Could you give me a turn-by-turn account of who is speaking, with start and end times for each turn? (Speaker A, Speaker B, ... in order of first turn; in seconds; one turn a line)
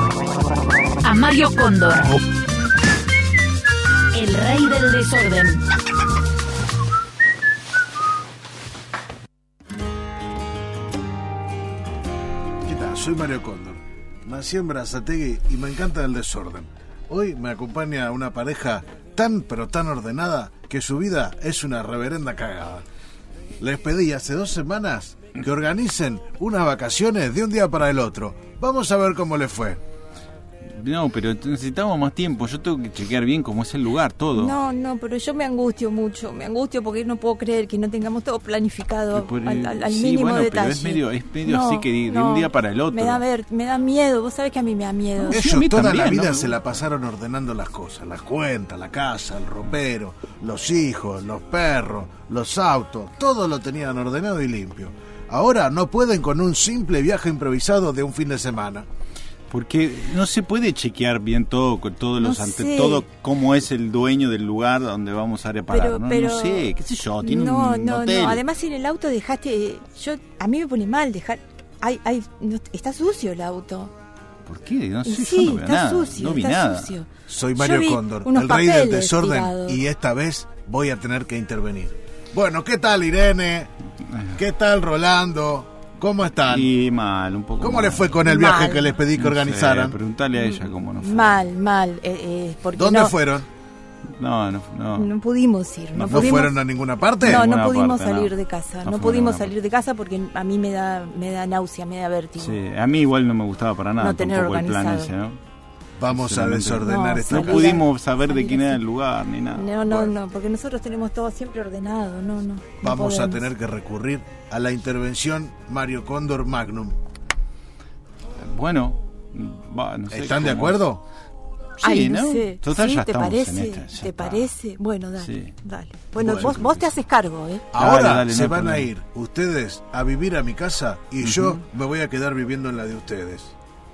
Speaker A: 1.0-2.2
Speaker A: 4.1-5.6
Speaker B: 12.7-22.8
Speaker B: 23.6-29.8
Speaker C: 30.7-34.6
Speaker D: 34.3-45.4
Speaker C: 39.1-43.2
Speaker C: 45.2-46.6
Speaker B: 45.3-58.9
Speaker C: 59.5-68.4
Speaker D: 62.2-63.0
Speaker D: 65.7-73.9
Speaker C: 74.5-76.9
Speaker D: 75.0-79.8
Speaker B: 77.3-83.7
Speaker B: 84.3-86.7
Speaker C: 86.5-88.2
Speaker B: 87.6-90.0
Speaker D: 88.2-89.0
Speaker C: 89.2-91.5
Speaker D: 90.3-93.2
Speaker B: 92.8-93.5
Speaker C: 94.2-95.1
Speaker D: 94.9-96.6
Speaker C: 95.9-96.5
Speaker B: 96.1-97.4
Speaker C: 97.2-99.5
Speaker D: 97.2-102.6
Speaker C: 102.4-105.4
Speaker D: 104.0-105.1
Speaker B: 106.0-107.8
Speaker C: 106.1-109.7
Speaker D: 106.8-108.8
Speaker D: 109.5-113.5
Speaker B: 109.9-110.1
Speaker B: 112.8-116.9
Speaker C: 118.4-120.8
Speaker B: 120.1-121.0
Speaker C: 121.8-124.5
Speaker D: 121.8-127.7
Speaker C: 125.2-125.5
Speaker C: 126.2-126.9
Speaker B: 126.2-126.7
Speaker B: 127.7-133.5
Speaker C: 127.7-128.9
Speaker C: 131.2-131.6